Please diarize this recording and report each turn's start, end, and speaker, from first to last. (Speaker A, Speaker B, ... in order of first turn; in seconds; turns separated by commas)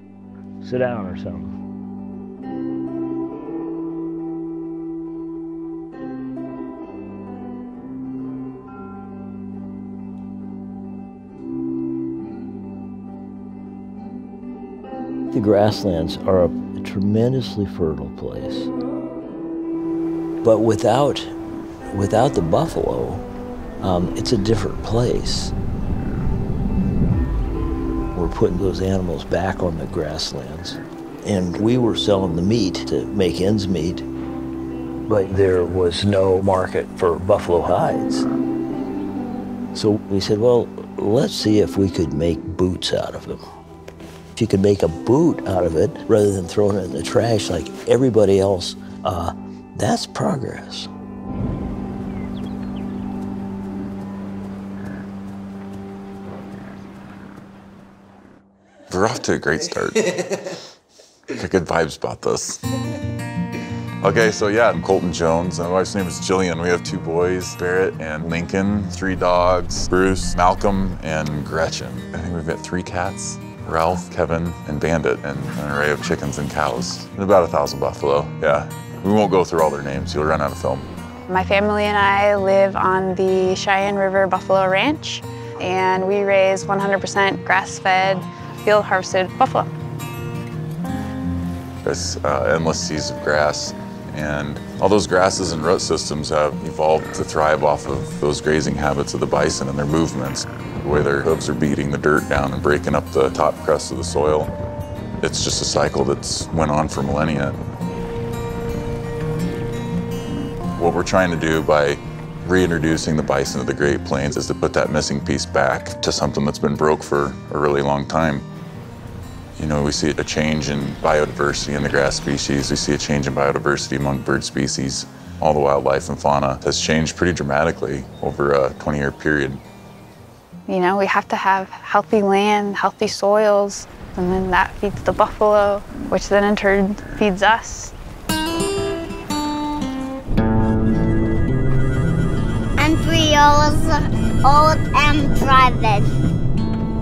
Speaker A: 0.6-1.5, Speaker A: 15.3-18.7, Speaker A: 20.4-21.3, Speaker A: 21.9-23.2, Speaker A: 23.8-25.5, Speaker A: 28.1-34.0, Speaker A: 35.1-38.3, Speaker A: 39.7-43.5, Speaker A: 44.4-50.9, Speaker B: 58.9-60.4, Speaker B: 61.3-62.6, Speaker B: 64.0-80.9, Speaker C: 81.3-89.7, Speaker B: 91.8-104.5, Speaker B: 105.2-107.6, Speaker B: 110.8-118.5, Speaker B: 119.6-129.6, Speaker C: 130.7-137.9, Speaker D: 142.8-146.1